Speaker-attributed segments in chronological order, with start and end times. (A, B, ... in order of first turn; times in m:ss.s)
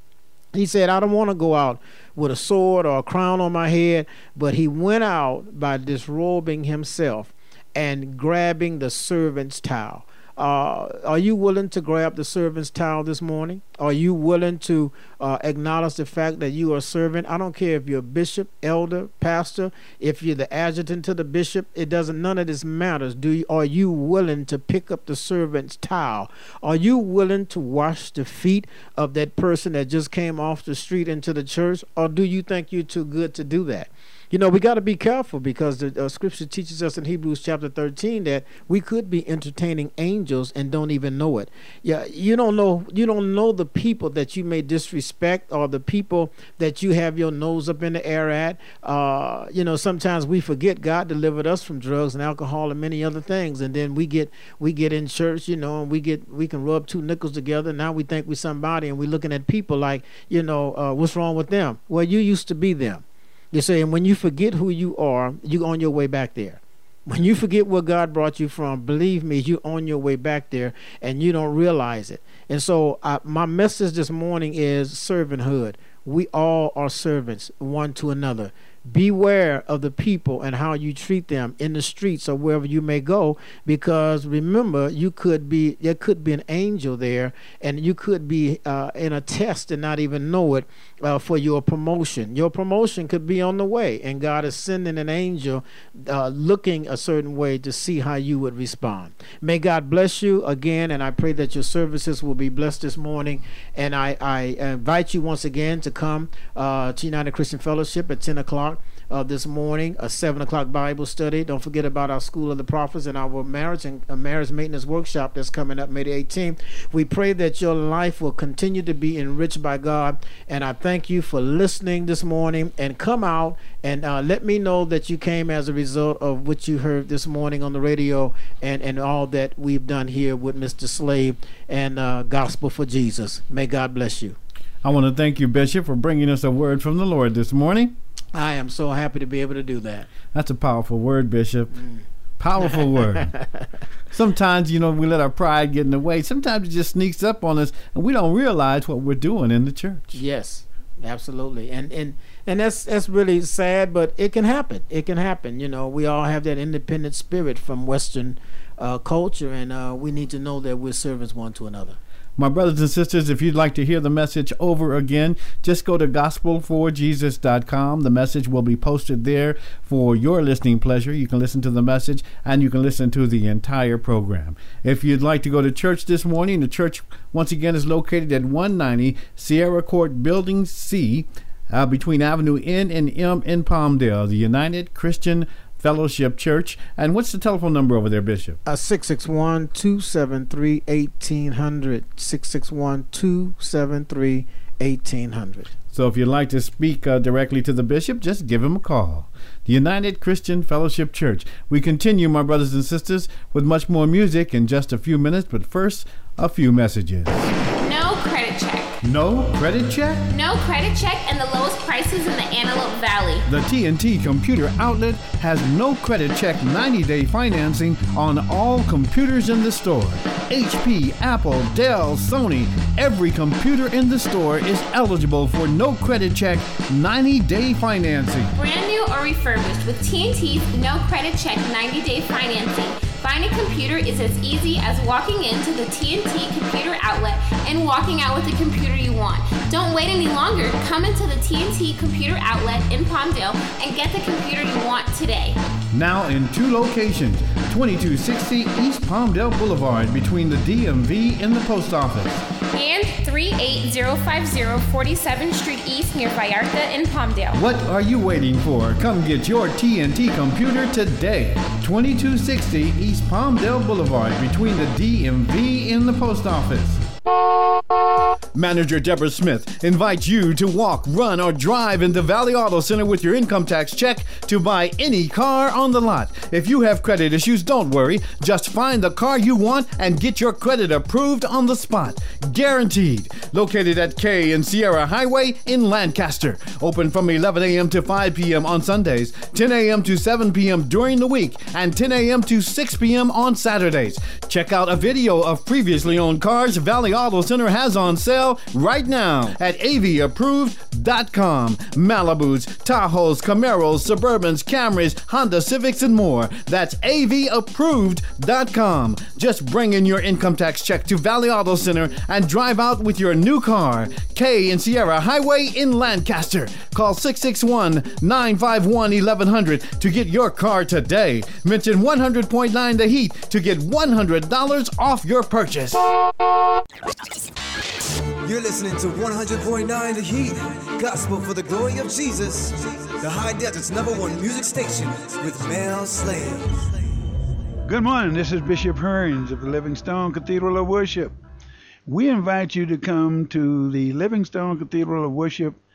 0:00.5-2:14.4 A
2:14.8-2:17.9 B
2:18.3-2:20.1 A
2:20.3-2:21.8 B
2:22.4-2:23.3 B
2:22.6-2:23.4 A
2:24.1-2:30.2 B
2:30.1-2:42.0 A
2:42.4-3:08.6 B
3:08.6-3:15.7 A
3:15.9-3:27.5 B
3:27.8-3:29.0 C
3:29.0-3:30.2 B
3:30.3-3:33.4 C
3:33.4-3:48.5 B
3:48.6-4:05.6 C
4:05.9-4:12.4 B
4:12.7-4:17.6 C
4:17.5-4:27.0 B
4:28.5-5:26.1 B
5:28.4-5:36.9 D
5:37.8-5:41.3 E
5:42.0-5:45.8 E